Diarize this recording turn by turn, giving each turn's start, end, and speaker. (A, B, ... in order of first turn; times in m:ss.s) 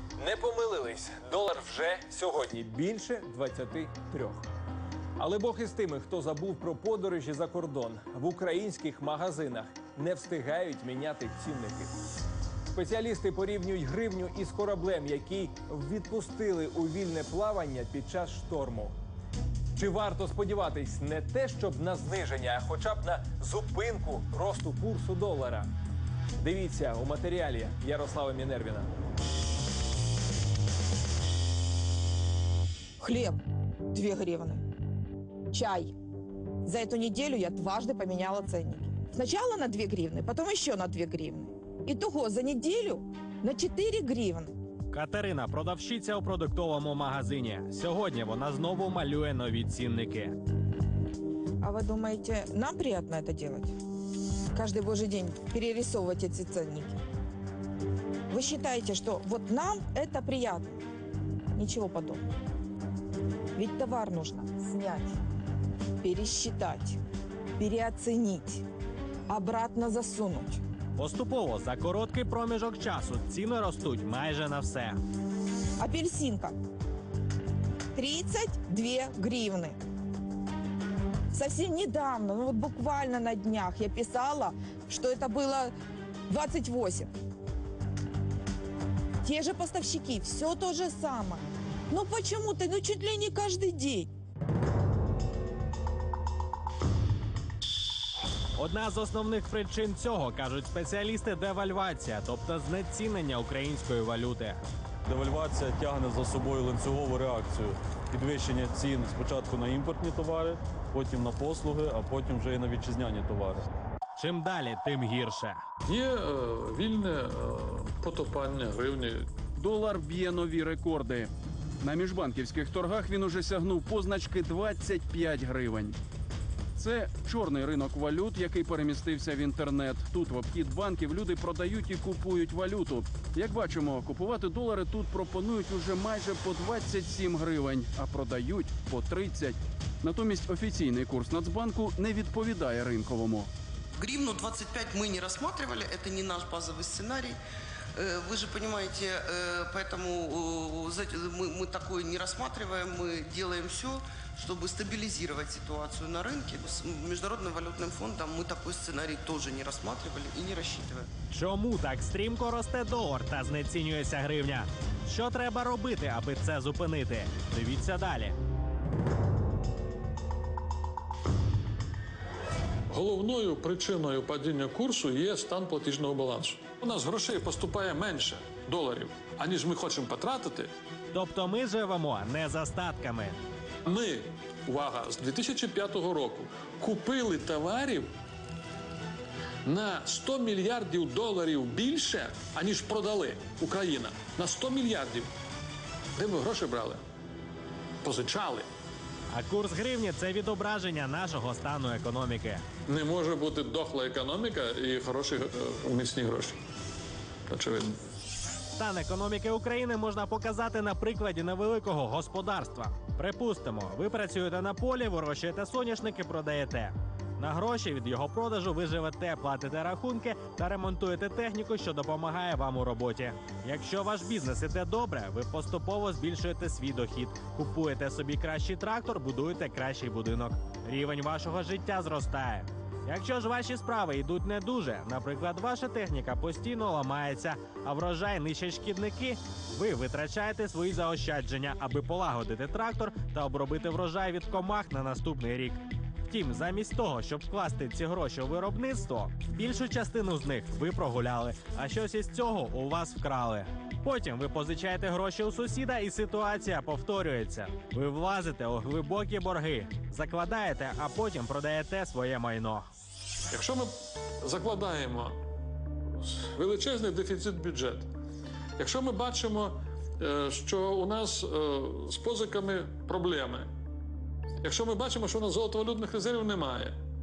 0:00.2-0:04.4 A
0:05.2-0:11.9 A
0:12.7-0:19.0 A
0:19.8-0:25.7 A
0:26.4-0:28.9 A
0:33.0-0:33.4 B
0:33.9-0:34.6 B
0:35.5-0:35.9 B
0:36.6-0:44.5 B
0:44.9-0:50.4 C
0:51.6-0:53.7 B
0:54.5-0:57.0 B
0:58.3-1:00.8 B
1:01.6-1:02.2 B
1:03.6-1:05.2 B
1:06.0-1:07.0 B
1:07.6-1:08.6 B
1:09.3-1:10.6 B
1:11.0-1:15.0 C
1:15.8-1:16.6 B
1:18.0-1:19.8 B
1:21.3-1:25.7 B
1:26.3-1:27.1 B
1:29.2-1:34.1 B
1:38.6-1:44.6 C
1:45.0-1:53.7 D
1:54.2-1:55.6 C
1:55.9-1:59.3 E
1:59.6-2:06.0 F
2:06.8-2:23.5 F
2:24.0-2:27.4 G
2:28.0-2:41.1 G
2:41.3-2:48.4 C
2:52.9-3:00.7 E
3:01.1-3:03.4 C
3:03.9-3:08.1 E
3:09.7-3:15.3 E
3:16.2-3:17.0 E
3:18.0-3:18.7 E
3:19.3-3:22.6 C
3:22.9-3:26.6 E
3:27.5-3:27.9 E
3:28.8-4:22.9 C
4:23.5-4:23.9 E
4:24.4-4:25.4 E
4:26.2-4:28.1 E
4:28.8-4:33.7 E
4:34.6-4:37.0 E